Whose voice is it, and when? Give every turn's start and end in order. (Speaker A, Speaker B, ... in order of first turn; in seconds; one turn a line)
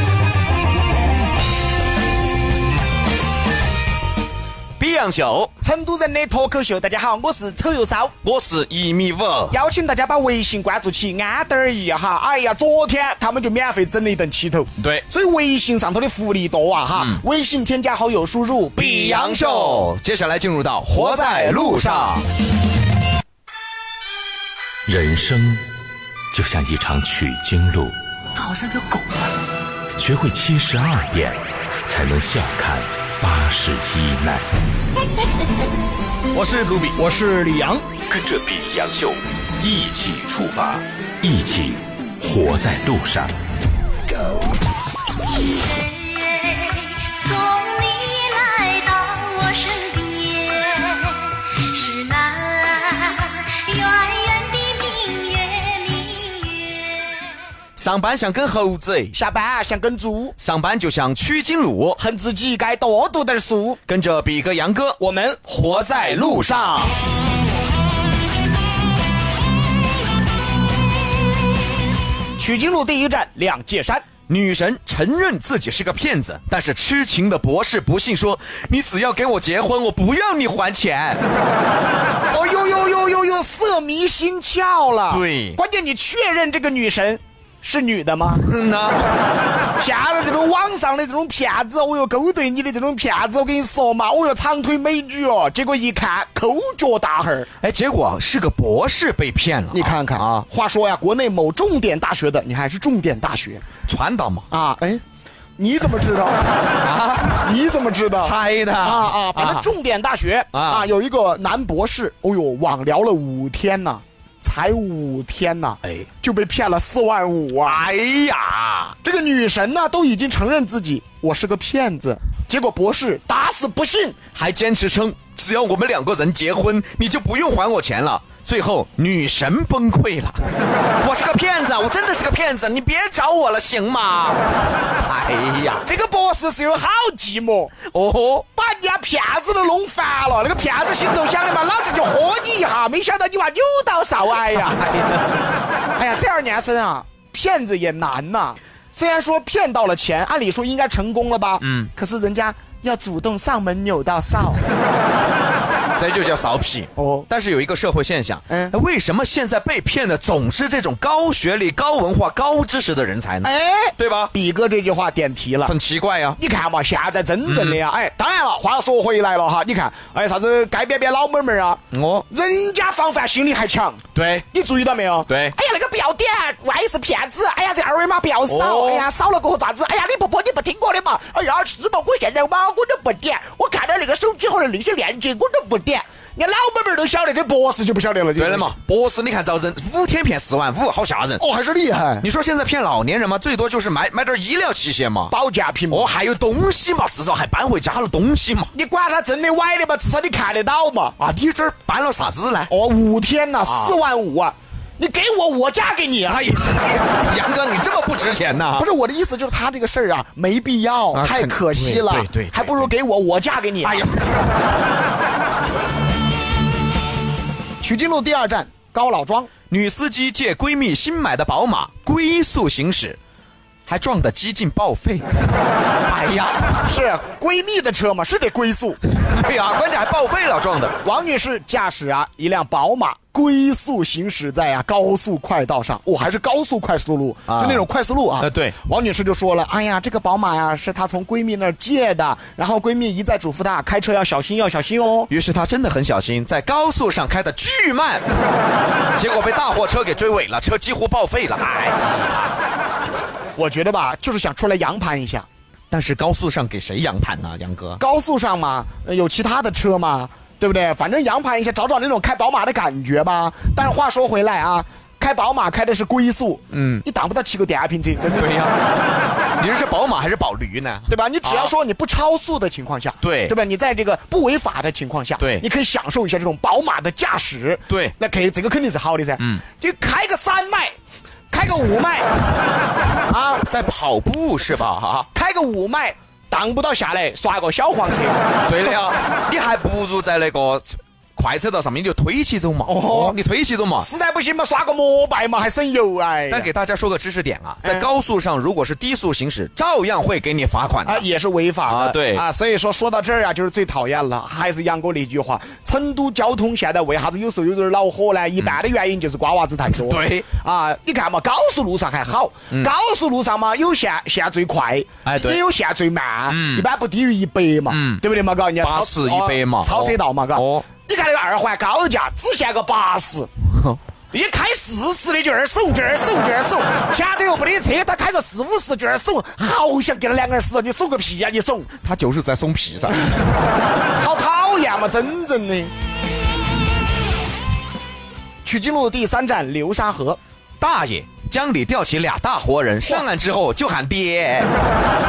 Speaker A: 4.8-5.5
Speaker B: 5.6-8.1
Speaker A: 8.2-9.6
Speaker B: 9.5-19.9
Speaker A: 14.8-15.0
Speaker A: 16.9-17.2
Speaker A: 18.8-22.2
Speaker B: 20.9-22.2
Speaker C: 24.9-25.6
Speaker C: 26.3-27.9
Speaker C: 29.9-34.5
Speaker A: 36.3-36.9
Speaker B: 36.5-37.8
Speaker C: 38.1-43.3
Speaker D: 45.4-57.3
Speaker A: 57.8-59.1
Speaker B: 59.1-60.4
Speaker A: 60.4-62.0
Speaker B: 62.0-63.8
Speaker A: 63.9-65.0
Speaker B: 65.0-66.9
Speaker A: 65.7-66.8
Speaker B: 72.4-74.1
Speaker A: 74.3-81.2
Speaker B: 82.3-88.5
Speaker A: 85.1-85.6
Speaker A: 88.4-89.0
Speaker B: 89.8-97.5
Speaker A: 97.6-100.5
Speaker B: 99.7-103.7
Speaker A: 103.9-104.5
Speaker B: 104.5-105.0
Speaker B: 105.6-106.6
Speaker A: 106.8-107.4
Speaker B: 107.3-117.8
Speaker A: 108.1-109.7
Speaker A: 110.5-110.9
Speaker A: 117.6-119.0
Speaker B: 119.0-124.2
Speaker A: 124.3-130.4
Speaker A: 131.0-135.8
Speaker B: 135.8-137.8
Speaker A: 137.9-138.4
Speaker B: 138.5-145.1
Speaker A: 144.7-145.2
Speaker B: 145.9-154.7
Speaker A: 151.6-151.9
Speaker A: 156.0-164.3
Speaker B: 156.9-157.3
Speaker B: 158.5-158.7
Speaker B: 163.4-165.7
Speaker A: 165.6-166.4
Speaker B: 166.4-188.7
Speaker A: 167.4-167.8
Speaker A: 171.9-172.2
Speaker A: 174.1-174.4
Speaker A: 175.3-175.5
Speaker A: 178.5-179.1
Speaker A: 188.3-191.4
Speaker B: 191.4-192.2
Speaker A: 192.2-195.3
Speaker B: 195.3-196.1
Speaker A: 195.9-198.7
Speaker B: 198.7-201.2
Speaker A: 201.2-202.7
Speaker B: 202.7-206.6
Speaker A: 203.6-203.9
Speaker A: 206.3-208.9
Speaker B: 208.8-214.0
Speaker A: 211.1-212.9
Speaker A: 213.8-214.5
Speaker B: 217.8-219.5
Speaker A: 219.7-223.2
Speaker A: 223.9-225.3
Speaker A: 226.1-226.8
Speaker B: 226.8-229.0
Speaker A: 229.1-231.0
Speaker B: 231.0-245.3
Speaker A: 237.5-237.9
Speaker A: 238.4-238.8
Speaker A: 245.3-248.3
Speaker A: 249.2-252.6
Speaker B: 253.6-255.5
Speaker A: 255.9-258.0
Speaker B: 258.0-268.6
Speaker A: 266.7-267.0
Speaker A: 268.3-268.8
Speaker A: 269.6-271.7
Speaker B: 271.1-280.9
Speaker A: 273.2-273.5
Speaker A: 275.4-275.6
Speaker A: 277.9-278.1
Speaker B: 281.5-282.3
Speaker B: 283.3-283.6
Speaker A: 283.6-285.3
Speaker B: 285.3-288.5
Speaker A: 288.6-294.1
Speaker B: 292.9-293.4
Speaker B: 294.0-296.7
Speaker A: 296.5-301.2
Speaker B: 301.0-323.5
Speaker A: 301.9-302.4
Speaker A: 309.9-310.5
Speaker A: 315.2-315.6
Speaker A: 316.5-316.9
Speaker A: 317.9-318.2
Speaker A: 318.8-320.9
Speaker A: 323.7-324.0
Speaker B: 324.3-331.9
Speaker A: 332.0-333.4
Speaker B: 334.1-335.9
Speaker B: 338.6-340.4
Speaker A: 340.8-344.7